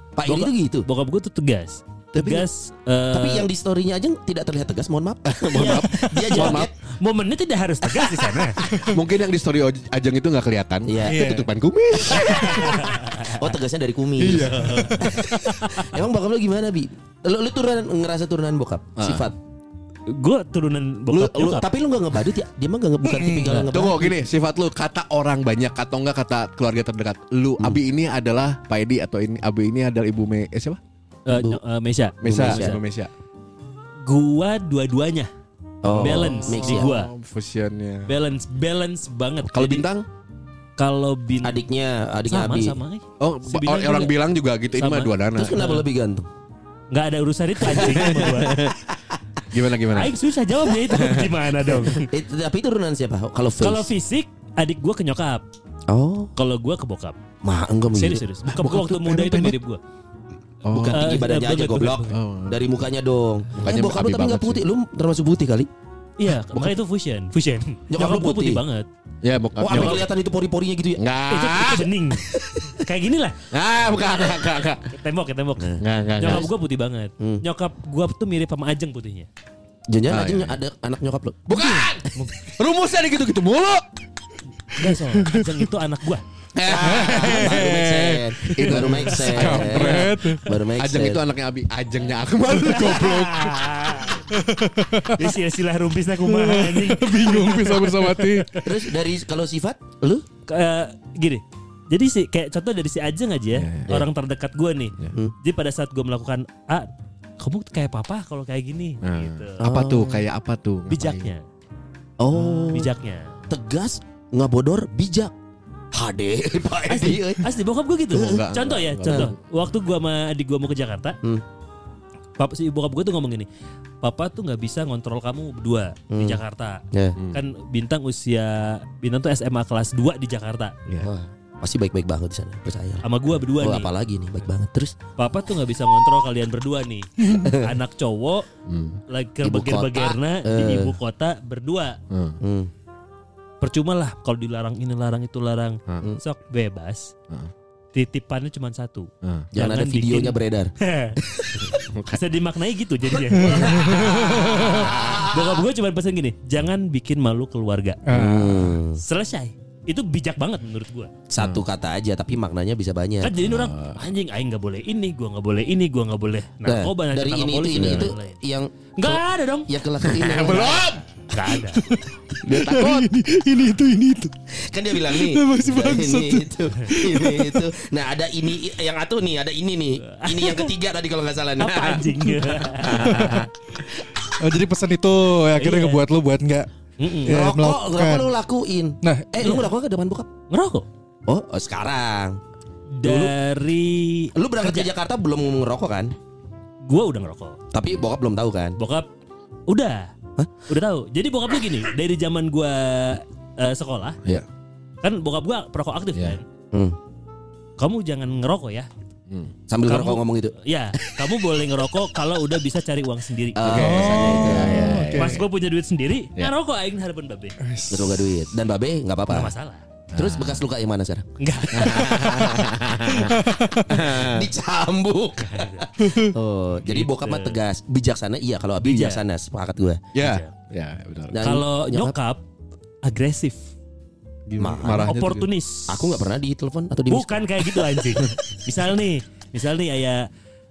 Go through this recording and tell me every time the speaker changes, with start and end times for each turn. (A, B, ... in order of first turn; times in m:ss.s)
0:00.2-0:00.9 A
0:00.2-0:03.5 B
0:02.1-0:02.4 C
0:03.1-0:06.7 A
0:05.2-0:06.7 C
0:05.6-0:08.6 B
0:08.9-0:12.9 C
0:10.8-0:11.3 A
0:11.0-0:11.5 D
0:12.5-0:19.3 A
0:14.2-0:15.1 D
0:14.4-0:14.9 C
0:14.4-0:14.9 B
0:19.0-0:19.3 C
0:20.1-0:21.7 B
0:21.2-0:24.2 A
0:23.0-0:23.7 D
0:23.7-0:30.8 C
0:31.2-0:32.8 B
0:31.3-0:31.6 A
0:32.2-0:33.1 C
0:32.2-0:32.8 A
0:34.0-0:35.3 B
0:35.8-0:36.9 A
0:35.9-0:38.1 C
0:35.9-0:37.1 B
0:38.1-0:39.8 B
0:39.5-0:40.0 C
0:40.8-0:41.6 B
0:41.4-0:42.8 A
0:42.3-0:44.1 B
0:43.2-0:45.7 C
0:44.7-0:45.8 B
0:45.3-0:46.3 A
0:46.9-0:48.7 B
0:47.6-0:48.9 A
0:47.7-0:48.7 C
0:49.5-0:50.2 C
0:49.9-0:52.1 B
0:50.9-0:51.3 C
0:51.8-0:53.9 A
0:53.6-0:55.4 B
0:55.9-0:56.3 A
0:56.4-0:57.2 B
0:57.4-0:58.2 A
0:57.9-0:59.8 B
0:58.4-0:59.5 C
1:00.6-1:01.2 C
1:00.7-1:05.7 A
1:00.8-1:02.1 B
1:02.1-1:02.6 C
1:03.5-1:04.6 C
1:06.2-1:08.9 B
1:07.9-1:08.6 A
1:09.2-1:10.1 C
1:09.6-1:11.0 A
1:09.7-1:10.0 B
1:11.0-1:11.9 C
1:11.3-1:13.4 B
1:12.3-1:12.7 A
1:13.5-1:14.9 C
1:14.9-1:19.3 B
1:15.8-1:16.5 C
1:17.2-1:17.4 A
1:19.9-1:21.9 A
1:20.1-1:20.6 C
1:21.5-1:23.8 C
1:24.7-1:26.2 B
1:26.6-1:27.8 C
1:26.6-1:31.2 A
1:26.8-1:30.4 D
1:28.5-1:30.2 C
1:30.7-1:33.5 C
1:32.6-1:34.2 B
1:32.9-1:33.4 D
1:34.3-1:35.4 D
1:35.1-1:38.5 B
1:36.2-1:38.6 D
1:38.6-1:40.2 A
1:40.5-1:46.9 B
1:43.5-1:44.0 C
1:47.4-1:49.6 B
1:49.0-1:51.3 C
1:49.6-1:50.2 A
1:50.9-1:51.4 B
1:52.2-1:52.9 A
1:52.4-1:53.3 B
1:53.5-1:55.3 A
1:55.9-1:57.5 A
1:56.9-2:01.2 B
1:58.1-1:58.4 A
1:58.1-1:59.3 C
1:59.1-1:59.3 A
2:02.4-2:03.5 B
2:04.0-2:10.8 B
2:06.1-2:06.4 A
2:11.0-2:13.0 A
2:13.0-2:13.9 B
2:13.6-2:14.9 A
2:15.2-2:18.5 B
2:17.3-2:17.7 A
2:18.7-2:19.0 C
2:19.1-2:22.0 B
2:19.4-2:20.9 A
2:22.1-2:22.4 C
2:22.4-2:22.7 A
2:23.6-2:27.1 B
2:27.9-2:31.2 B
2:29.2-2:29.5 C
2:29.5-2:31.6 A
2:31.7-2:32.2 C
2:32.1-2:38.0 B
2:33.4-2:34.2 D
2:33.4-2:35.5 A
2:38.0-2:38.7 D
2:38.1-2:39.0 A
2:39.0-2:41.1 B
2:41.3-2:43.3 A
2:41.4-2:41.6 C
2:43.2-2:48.4 B
2:43.4-2:44.0 C
2:46.6-2:51.0 A
2:47.8-2:48.1 C
2:49.0-2:49.7 B
2:50.0-2:51.2 C
2:51.3-2:51.9 B
2:51.9-2:54.4 D
2:52.4-2:53.1 C
2:54.5-3:02.2 A
2:55.1-2:57.7 D
3:00.0-3:00.7 B
3:01.6-3:03.4 B
3:02.8-3:03.3 A
3:02.9-3:03.5 D
3:02.9-3:03.4 C
3:04.4-3:06.7 D
3:05.6-3:06.0 B
3:07.0-3:07.4 B
3:07.2-3:10.3 A
3:07.2-3:08.3 D
3:09.0-3:09.4 D
3:10.5-3:10.8 B
3:11.3-3:12.4 A
3:13.0-3:14.9 B
3:13.0-3:13.3 A
3:14.3-3:16.1 A
3:16.8-3:17.6 B
3:17.7-3:18.8 A
3:18.8-3:19.1 B
3:19.7-3:20.1 B
3:20.7-3:24.2 B
3:25.0-3:26.4 B
3:27.8-3:28.9 B
3:29.7-3:30.5 A
3:29.9-3:33.9 B
3:33.6-3:34.9 A
3:33.6-3:35.4 C
3:33.7-3:35.4 D
3:35.1-3:37.6 B
3:37.6-3:38.3 D
3:37.9-3:39.5 A
3:39.3-3:39.8 B
3:40.1-3:42.7 A
3:40.1-3:40.6 C
3:41.4-3:42.5 B
3:41.7-3:44.5 C
3:43.1-3:44.1 D
3:44.0-3:50.0 A
3:45.4-3:45.9 B
3:46.0-3:46.3 D
3:46.8-3:47.6 B
3:48.8-3:49.2 B
3:50.1-3:51.4 C
3:50.2-3:50.5 B
3:51.3-3:52.1 A
3:51.4-3:52.4 B
3:53.0-3:53.6 B
3:54.5-3:55.5 C
3:54.6-3:55.2 A
3:54.9-3:56.3 B
3:55.9-3:57.4 A
3:57.1-4:00.2 B